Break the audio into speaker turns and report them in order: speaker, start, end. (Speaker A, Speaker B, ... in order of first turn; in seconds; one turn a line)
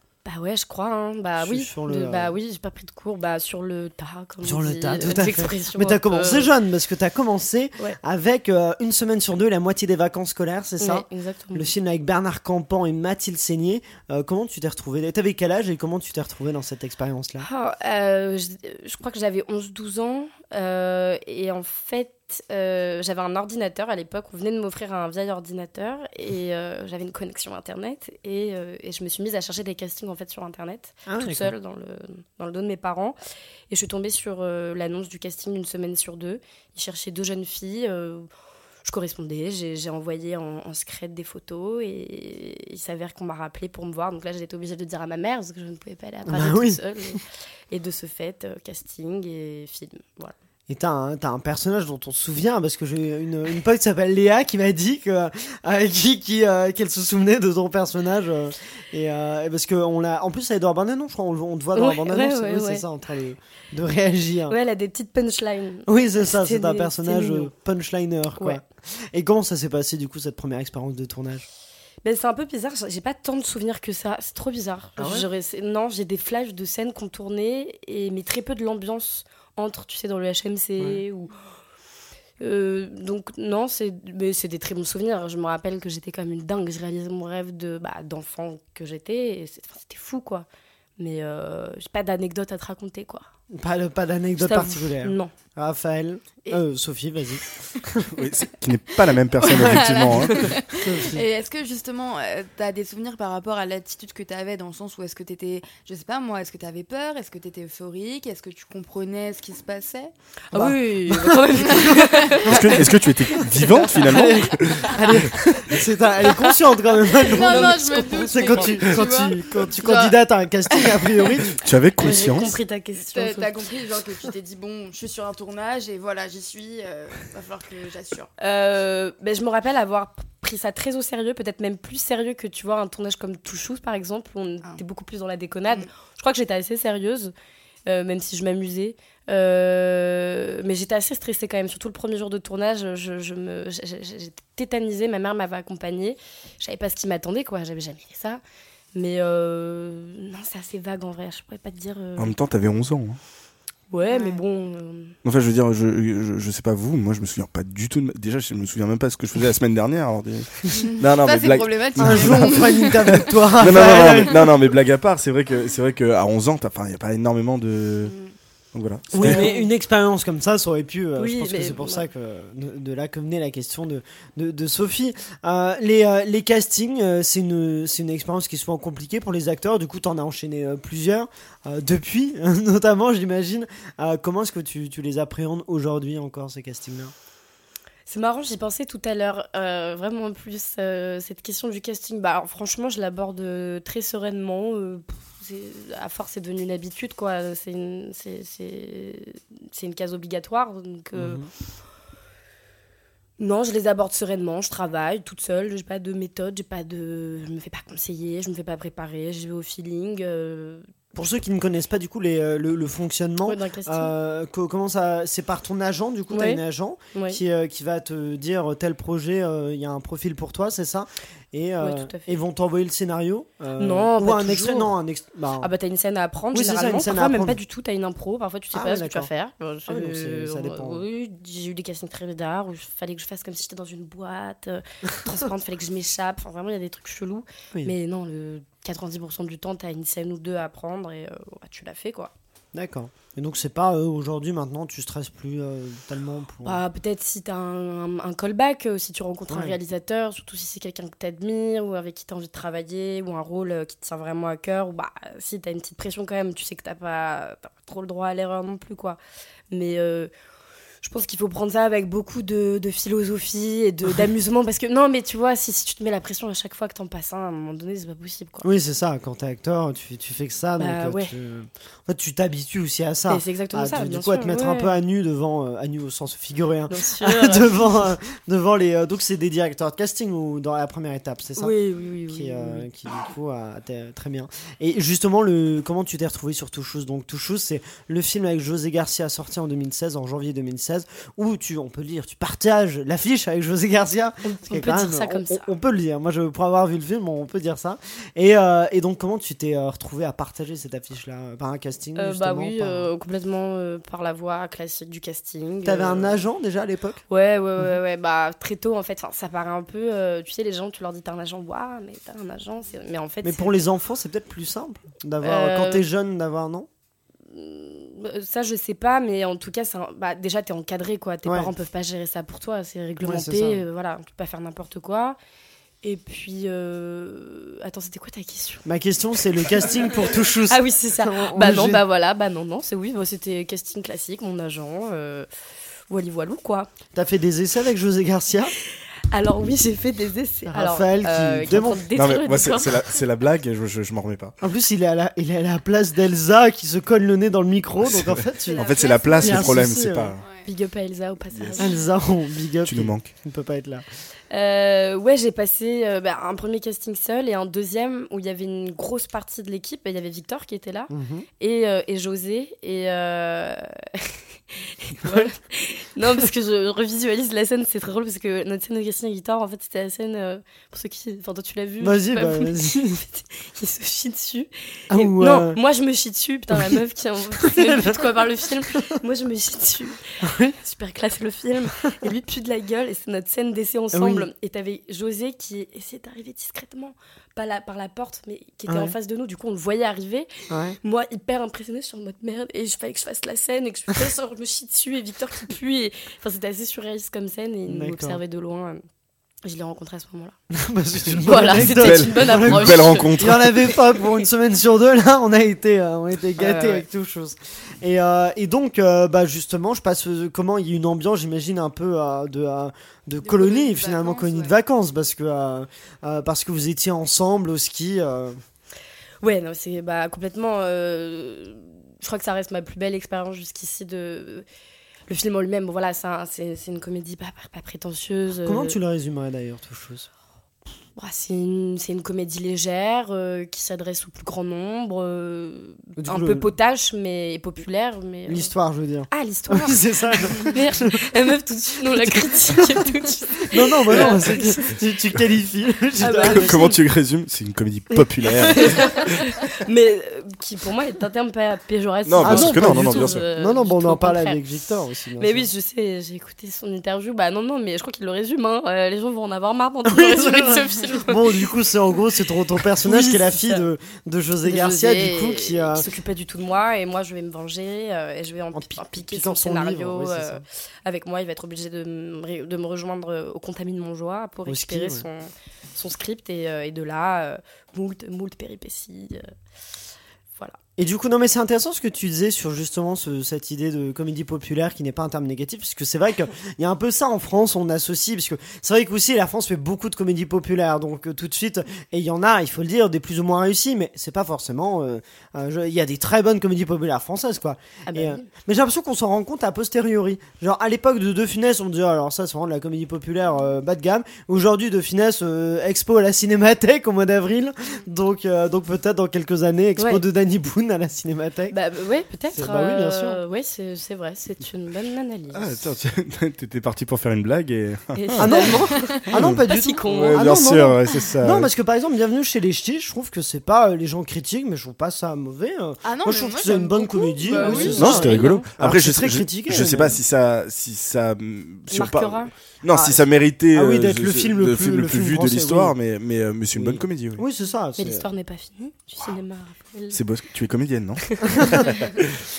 Speaker A: 0.2-6.5
Speaker B: 1.4-2.4
Speaker B: 4.4-17.5
Speaker A: 10.8-11.7
Speaker A: 17.4-33.1
Speaker B: 31.1-31.5
Speaker A: 33.7-38.3
Speaker A: 38.9-50.3
Speaker B: 46.3-47.2
Speaker B: 50.7-64.6
Speaker A: 61.8-62.9
Speaker A: 64.5-67.5
Speaker B: 65.9-71.5
Speaker A: 72.0-81.3
Speaker B: 75.0-75.3
Speaker A: 82.4-90.5
Speaker A: 91.0-93.3
Speaker B: 93.5-98.1
Speaker A: 94.4-95.3
Speaker C: 98.1-100.5
Speaker D: 99.4-110.1
Speaker B: 100.7-101.2
Speaker A: 110.5-113.6
Speaker B: 110.5-112.6
Speaker C: 112.4-115.7
Speaker B: 113.8-121.6
Speaker D: 117.1-120.2
Speaker A: 117.4-118.6
Speaker D: 120.7-121.5
Speaker C: 121.6-122.6
Speaker A: 122.0-123.6
Speaker D: 123.1-128.3
Speaker A: 128.4-137.3
Speaker A: 137.9-148.4
Speaker A: 148.9-152.3
Speaker C: 152.2-153.2
Speaker A: 153.9-155.2
Speaker D: 154.1-154.4
Speaker C: 155.2-168.1
Speaker D: 160.8-163.3
Speaker B: 162.0-164.5
Speaker C: 168.7-169.4
Speaker B: 169.1-187.1
Speaker A: 169.2-169.7
Speaker A: 171.2-172.1
Speaker A: 188.1-201.4
Speaker B: 201.2-201.5
Speaker A: 203.4-210.9
Speaker B: 211.1-225.7
Speaker A: 213.4-214.1
Speaker A: 216.3-216.6
Speaker A: 217.1-217.4
Speaker A: 221.8-222.4
Speaker A: 223.8-224.9
Speaker A: 225.6-242.3
Speaker B: 226.5-227.6
Speaker B: 228.7-229.3
Speaker B: 229.9-231.0
Speaker B: 242.7-246.8
Speaker A: 246.7-259.2
Speaker B: 249.5-249.8
Speaker A: 259.7-260.3
Speaker A: 261.0-268.7
Speaker B: 268.6-281.7
Speaker A: 270.8-271.3
Speaker A: 273.3-275.0
Speaker A: 276.9-278.1
Speaker A: 281.6-282.9
Speaker B: 282.3-303.1
Speaker A: 294.4-295.7
Speaker A: 302.2-306.4
Speaker B: 305.9-307.2
Speaker A: 307.3-313.8
Speaker B: 313.4-316.9
Speaker A: 315.4-316.1
Speaker A: 317.5-325.4
Speaker B: 321.5-321.7
Speaker B: 323.2-323.8
Speaker A: 326.0-328.9
Speaker B: 328.9-332.0
Speaker A: 330.7-335.5
Speaker A: 336.1-336.9
Speaker B: 337.1-338.7
Speaker A: 339.3-343.1
Speaker B: 340.7-342.1
Speaker C: 342.1-344.6
Speaker B: 344.6-350.4
Speaker C: 348.0-350.4
Speaker A: 348.8-349.8
Speaker D: 350.4-350.7
Speaker A: 350.6-352.0
Speaker C: 351.5-351.9
Speaker B: 351.8-354.1
Speaker C: 352.9-353.3
Speaker A: 354.5-390.5
Speaker B: 361.1-361.5
Speaker B: 365.2-365.5
Speaker B: 372.0-373.2
Speaker B: 375.1-375.8
Speaker B: 376.7-377.0
Speaker B: 377.6-379.1
Speaker B: 380.4-380.8
Speaker B: 384.1-384.5
Speaker B: 388.9-389.1
Speaker B: 390.7-391.0
Speaker A: 391.0-399.0
Speaker B: 397.9-398.4
Speaker A: 399.6-400.6
Speaker B: 400.7-418.6
Speaker A: 401.5-403.4
Speaker C: 401.6-403.9
Speaker A: 406.6-407.0
Speaker D: 413.4-414.8
Speaker A: 419.4-424.6
Speaker A: 425.3-429.0
Speaker B: 428.6-430.3
Speaker A: 431.2-438.7
Speaker B: 436.2-436.7
Speaker B: 438.5-441.2
Speaker A: 439.3-444.9
Speaker B: 442.1-443.1
Speaker B: 443.7-446.8
Speaker A: 446.2-447.0
Speaker C: 446.4-449.4
Speaker A: 448.7-454.6
Speaker C: 452.3-453.4
Speaker B: 452.4-455.7
Speaker A: 455.4-461.7
Speaker B: 460.1-466.1
Speaker A: 462.9-463.9
Speaker A: 464.6-479.5
Speaker B: 468.7-470.6
Speaker B: 474.7-475.3
Speaker B: 481.0-511.8
Speaker A: 498.1-498.5
Speaker A: 510.0-510.2
Speaker A: 511.7-515.8
Speaker B: 512.5-513.4
Speaker C: 515.5-518.7
Speaker A: 518.1-520.5
Speaker B: 518.4-530.2
Speaker C: 519.3-521.7
Speaker D: 526.0-528.2
Speaker A: 527.5-528.7
Speaker C: 527.9-537.4
Speaker A: 531.9-532.5
Speaker B: 532.9-536.0
Speaker B: 536.7-538.3
Speaker A: 538.0-540.2
Speaker C: 540.1-542.4
Speaker B: 541.4-542.0